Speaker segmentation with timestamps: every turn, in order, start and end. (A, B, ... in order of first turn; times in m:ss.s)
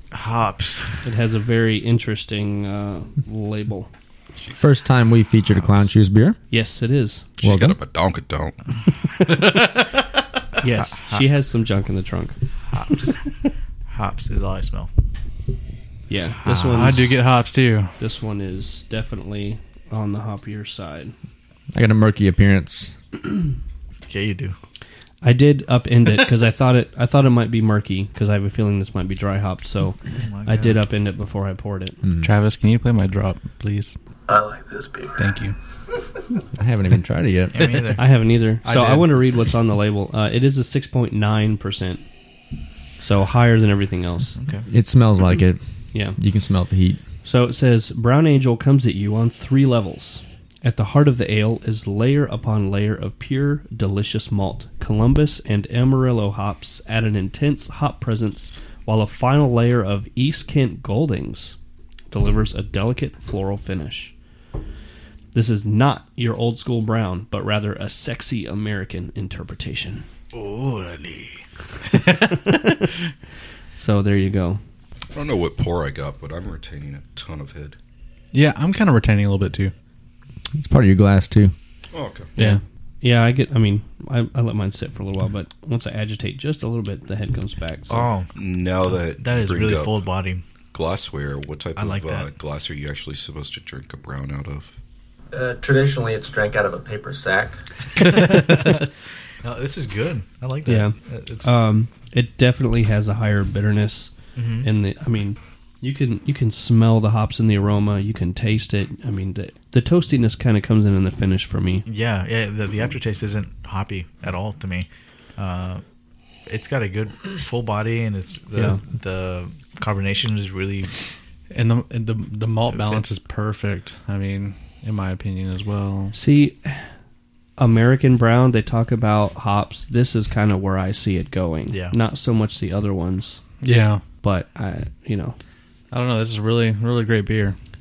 0:00.1-0:01.0 A
0:01.0-0:03.9 B
0:04.6-0:06.4 C
0:06.5-0:07.2 B
0:07.4-0:08.6 D
0:07.4-0:07.8 C
0:09.2-0:09.8 B
0:10.6-0:12.4 B
0:10.8-0:11.3 A
0:12.7-0:13.2 A
0:13.9-0:14.9 A
0:16.1-0:17.2 B
0:16.6-0:17.9 E
0:18.0-0:21.1 B
0:21.7-0:22.9 C
0:24.1-0:24.5 A
0:25.2-0:32.0 B
0:30.1-0:30.8 A
0:32.0-0:32.3 C
0:32.2-0:33.9 E
0:34.3-0:35.2 F
0:35.2-0:35.6 E
0:36.5-0:37.8 C
0:37.5-0:38.0 A
0:38.0-0:42.0 B
0:38.6-0:39.1 E
0:43.0-0:44.3 B
0:44.4-0:44.7 A
0:44.7-0:45.6 C
0:45.9-0:46.2 B
0:46.1-0:47.0 C
0:47.2-1:01.6 B
1:02.1-1:04.1 B
1:05.3-1:10.0 B
1:10.3-1:11.4 A
1:11.9-1:12.8 E
1:12.3-1:12.8 B
1:13.8-1:14.6 B
1:15.1-1:17.8 D
1:18.3-1:19.7 E
1:20.5-1:21.5 C
1:21.9-1:22.3 D
1:22.4-1:28.1 B
1:27.9-1:28.3 A
1:28.3-1:30.0 D
1:28.8-1:30.4 A
1:30.7-1:34.7 D
1:31.8-1:32.3 A
1:35.3-1:37.6 F
1:38.0-1:38.9 A
1:39.4-1:41.5 A
1:40.6-1:51.8 B
1:44.4-1:44.7 A
1:51.9-1:55.8 A
1:56.4-2:01.0 A
1:58.5-1:58.8 B
2:01.5-2:06.1 E
2:02.7-2:03.0 A
2:06.1-2:06.9 B
2:07.6-2:13.4 B
2:11.7-2:12.0 A
2:13.6-2:14.0 E
2:14.2-2:15.4 B
2:15.9-2:17.6 E